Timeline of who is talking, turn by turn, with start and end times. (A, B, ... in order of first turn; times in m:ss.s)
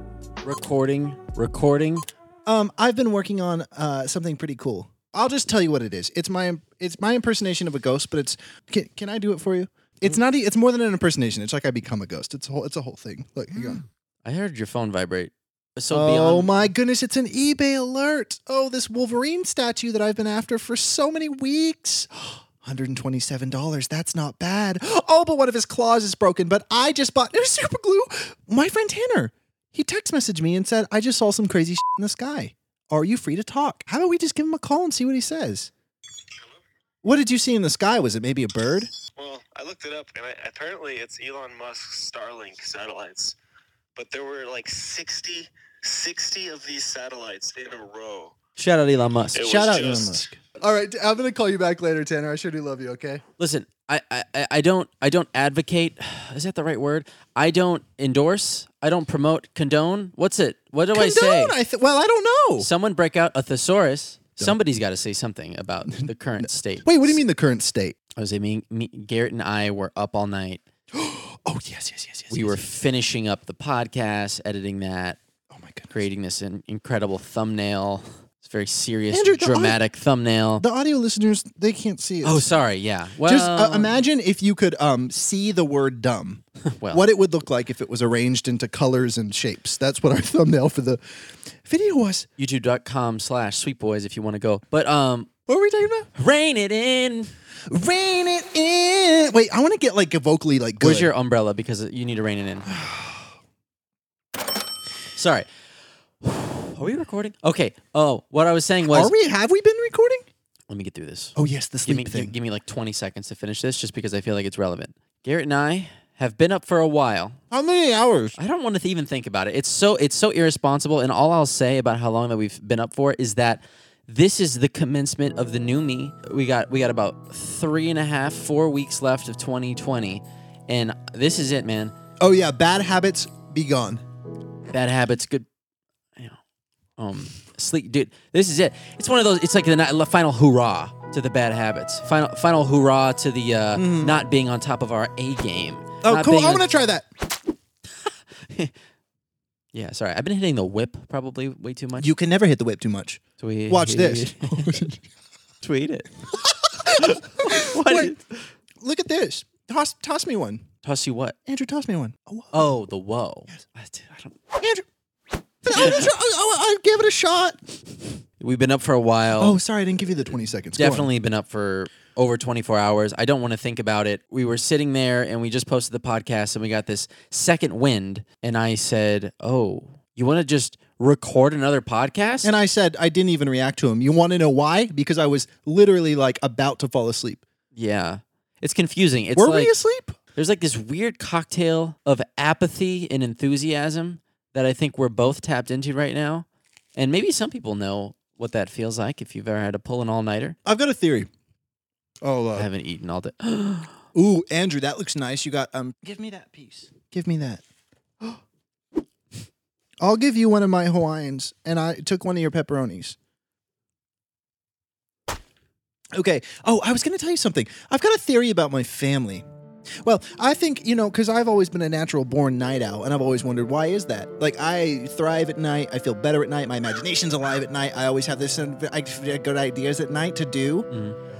0:00.4-0:02.1 A
0:02.4-0:13.8 B
0:14.2-0:16.7 A
0:15.9-0:35.7 B
0:37.0-0:38.9 B
0:39.1-0:43.4 C
0:44.0-0:48.4 C
0:48.6-0:49.4 A
0:49.3-0:50.2 C
0:49.4-0:53.2 B
0:53.4-1:01.6 A
1:00.9-1:02.7 B
1:02.6-1:07.2 A
1:05.9-1:08.0 B
1:08.2-1:10.6 A
1:10.9-1:12.6 B
1:12.3-1:15.2 A
1:15.5-1:16.0 B
1:15.9-1:20.6 A
1:19.1-1:19.8 B
1:20.6-1:22.5 B
1:22.2-1:24.0 A
1:23.2-1:32.3 B
1:26.6-1:27.0 A
1:32.4-1:35.3 A
1:35.5-1:36.1 B
1:36.2-1:37.3 A
1:37.7-1:41.1 B
1:40.8-1:42.7 A
1:42.7-1:43.3 B
1:45.1-1:45.5 A
1:46.2-1:49.1 A
1:48.9-1:50.3 B
1:50.7-1:57.4 A
1:51.4-1:52.3 B
1:57.5-1:58.4 B
1:58.4-2:11.9 A
2:12.2-2:14.0 B
2:14.7-2:15.5 A
2:17.0-2:26.7 A
2:23.7-2:24.2 B
2:26.0-2:27.1 B
2:28.0-2:28.7 A
2:29.7-2:32.1 A
2:32.0-2:35.0 B
2:33.4-2:34.9 A
2:35.6-2:36.1 A
2:36.6-2:38.1 B
2:36.8-2:38.5 A
2:38.8-2:40.7 B
2:40.8-2:41.4 A
2:41.4-2:42.7 B
2:42.5-2:44.4 A
2:44.6-2:44.8 B
2:45.6-2:47.6 B
2:45.7-2:46.1 A
2:48.4-2:49.6 A
2:49.4-2:51.1 B
2:50.7-3:02.5 A
3:02.4-3:07.4 B
3:07.7-3:09.8 A
3:09.4-3:10.1 B
3:10.3-3:20.6 A
3:20.6-3:21.3 B
3:22.2-3:22.7 B
3:22.5-3:23.9 A
3:24.1-3:27.6 B
3:30.0-3:33.2 B
3:36.1-3:39.4 B
3:40.0-3:50.9 B
3:50.9-3:51.2 A